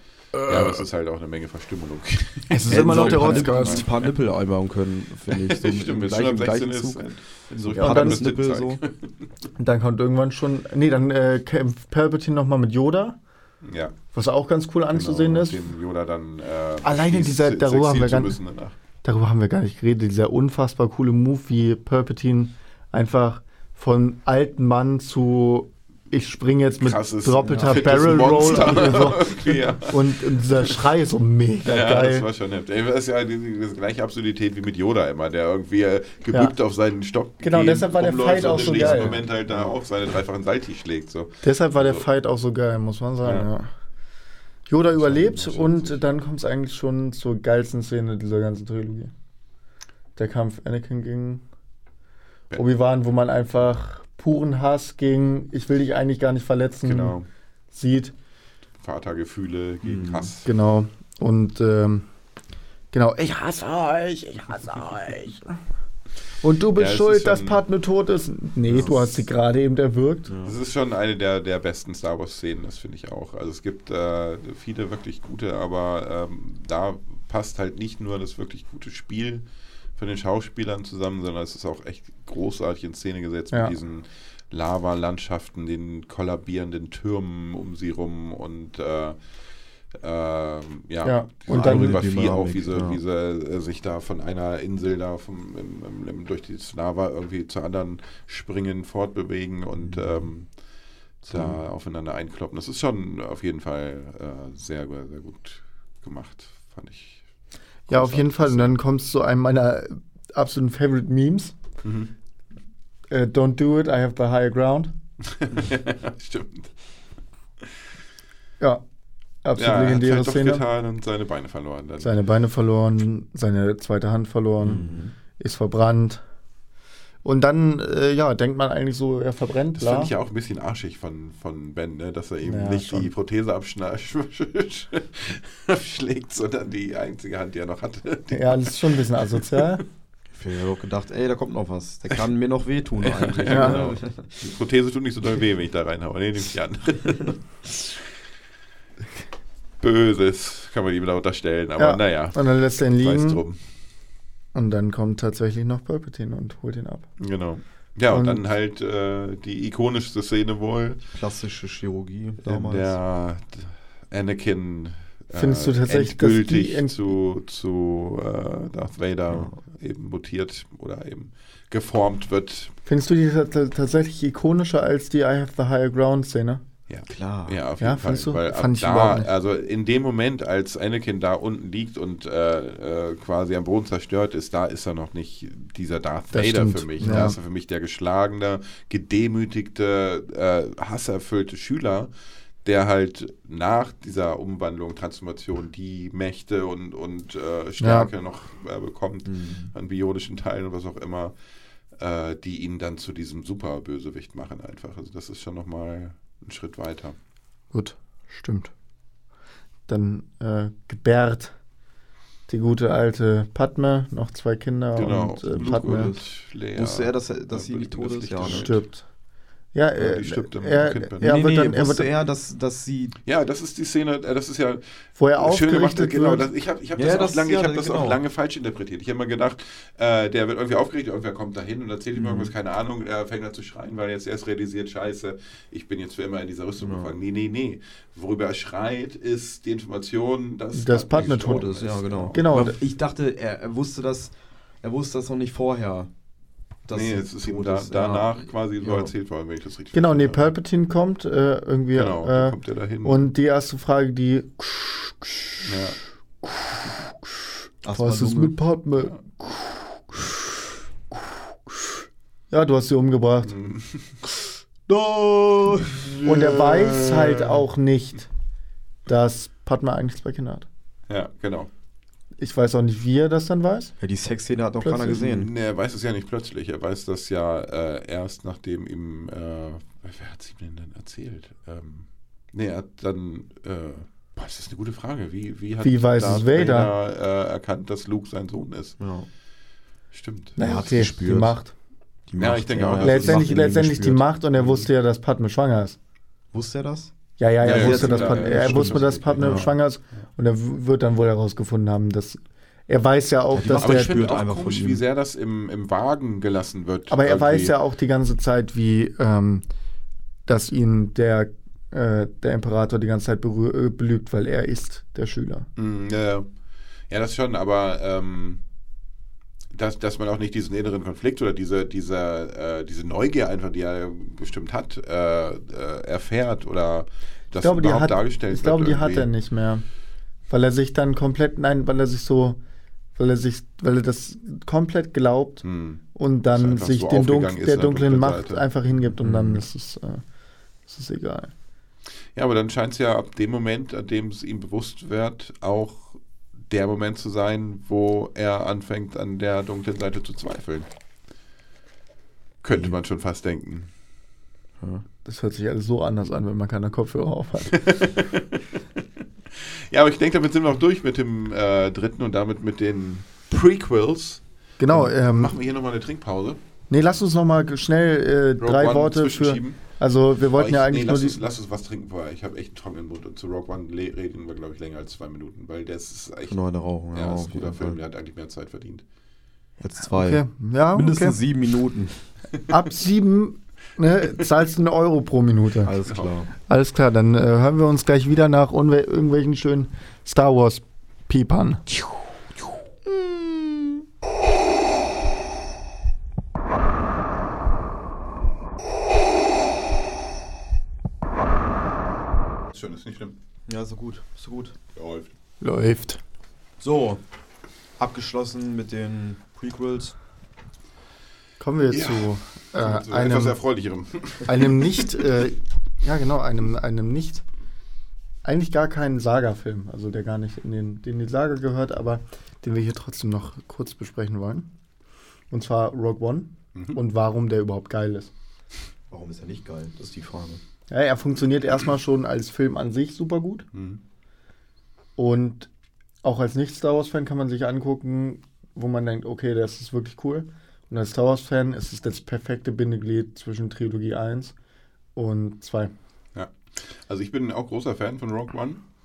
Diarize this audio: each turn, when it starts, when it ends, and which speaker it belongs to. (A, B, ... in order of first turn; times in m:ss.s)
0:00.4-0:00.8 A
0:00.5-0:04.1 B
0:02.5-0:03.9 A
0:02.7-0:07.1 C
0:05.3-0:09.2 B
0:07.7-0:08.8 C
0:07.7-0:08.4 A
0:09.6-0:13.2 A
0:13.6-0:14.0 B
0:14.1-0:15.6 A
0:14.9-0:18.7 B
0:16.8-0:18.4 A
0:19.0-0:32.2 A
0:26.8-0:30.8 B
0:27.4-0:28.9 C
0:31.6-0:42.0 B
0:36.3-0:36.5 A
0:37.4-0:39.2 A
0:38.6-0:39.6 C
0:41.4-0:43.7 A
0:43.2-0:43.5 B
0:44.7-0:49.1 A
0:45.0-0:46.0 B
0:50.2-0:51.4 A
0:52.5-0:57.2 A
0:56.8-0:57.3 B
0:57.7-0:58.1 A
0:58.8-1:00.5 B
0:59.8-1:00.3 C
1:00.4-1:02.1 A
1:02.9-1:05.6 A
1:06.4-1:10.3 A
1:06.7-1:07.6 B
1:08.7-1:09.2 B
1:10.3-1:10.5 C
1:10.4-1:29.2 B
1:29.9-1:40.5 B
1:31.0-1:32.0 A
1:31.5-1:33.0 C
1:39.8-1:40.3 C
1:41.2-1:41.6 C
1:41.3-1:47.2 B
1:47.9-1:48.7 B
1:47.9-1:51.6 A
1:51.8-1:52.1 B
1:53.1-1:54.9 A
1:55.2-1:56.7 B
1:59.4-2:00.6 A
1:59.6-2:02.1 B
2:02.0-2:06.2 A
2:04.6-2:05.1 C
2:07.2-2:10.1 A
2:09.8-2:19.8 B
2:12.4-2:13.1 A
2:18.3-2:19.8 A
2:20.3-2:24.3 C
2:23.0-2:27.4 B
2:23.5-2:23.8 A
2:29.8-2:33.6 B
2:31.8-2:33.4 A
2:34.5-2:37.1 A
2:37.2-2:41.0 B
2:38.1-2:38.4 A
2:41.1-2:43.0 C
2:42.4-2:52.8 B
2:45.4-2:47.0 A
2:49.3-2:49.6 C
2:52.8-2:56.6 A
2:56.9-3:12.1 B
2:57.1-2:57.6 C
2:57.8-2:59.3 A
3:06.3-3:07.3 A
3:07.0-3:07.3 C
3:12.6-3:21.4 B
3:17.8-3:18.1 A
3:19.2-3:19.7 C
3:21.9-3:27.2 B
3:27.7-3:28.7 A
3:29.9-3:31.6 A
3:32.5-3:36.1 A
3:34.9-3:38.8 B
3:35.6-3:38.7 C
3:38.4-3:39.0 A
3:39.7-3:42.1 A
3:39.9-3:41.2 B
3:41.2-3:43.2 C
3:43.2-4:02.4 B
3:45.2-3:46.5 A
3:47.0-3:48.2 C
3:52.1-3:52.5 C
3:56.8-3:57.1 C
4:00.7-4:01.7 A
4:01.4-4:06.1 C
4:02.3-4:02.7 A
4:06.8-4:09.1 C
4:06.9-4:10.5 B
4:09.9-4:22.0 A
4:11.9-4:13.3 B
4:15.6-4:16.0 B
4:17.8-4:18.6 C
4:22.5-4:23.6 A
4:23.5-4:24.2 B
4:24.9-4:26.1 C
4:26.0-4:27.6 B
4:26.2-4:28.3 A
4:29.0-4:30.7 A
4:31.1-4:31.7 B
4:32.4-4:33.9 A
4:34.0-4:35.5 C
4:35.0-4:49.0 B
4:45.8-4:46.9 A
4:49.0-4:49.3 C
4:50.1-4:50.6 B
4:50.6-4:51.6 C
4:50.6-4:51.7 A
4:52.3-4:54.2 C
4:52.4-4:53.5 B
4:53.0-4:56.0 A
4:54.6-4:54.9 B
4:56.5-4:59.7 C
4:57.4-5:04.3 A
4:57.6-4:59.8 B
5:03.5-5:05.0 C
5:03.7-5:07.7 B
5:07.1-5:09.6 A
5:10.4-5:15.7 A
5:15.8-5:16.5 B
5:17.1-5:18.6 B
5:19.7-5:29.3 B
5:27.6-5:29.8 A
5:30.5-5:32.6 A
5:33.2-5:40.2 A
5:35.6-5:36.0 B
5:36.5-5:38.6 B
5:39.2-5:39.6 C
5:40.9-5:41.5 A
5:42.3-5:50.9 B
5:52.6-5:53.9 B
5:55.2-5:58.2 A
5:57.7-5:58.6 B
5:59.5-6:06.6 B
6:04.8-6:05.5 A
6:06.9-6:11.4 A
6:08.6-6:09.8 B
6:10.5-6:16.6 B
6:16.5-6:18.0 C
6:17.1-6:19.0 B
6:19.8-6:20.4 C
6:20.1-6:21.4 A
6:20.9-6:22.3 C
6:22.7-6:26.0 A
6:25.8-6:26.5 C
6:26.1-6:26.3 B
6:26.7-6:31.8 A
6:42.7-6:43.4 B
6:43.7-6:44.8 C
6:44.9-6:45.3 B
6:45.6-6:46.2 A
6:46.8-6:47.2 C
6:48.0-6:50.2 C
6:51.6-6:53.6 A
6:51.9-6:55.4 B
6:54.4-6:57.4 A
6:58.4-7:04.7 A
7:05.5-7:08.3 A
7:09.1-7:10.6 C
7:10.9-7:13.7 A
7:13.7-7:14.0 B
7:15.2-7:15.7 A
7:16.2-7:24.5 A
7:25.1-7:25.9 A
7:26.3-7:28.8 B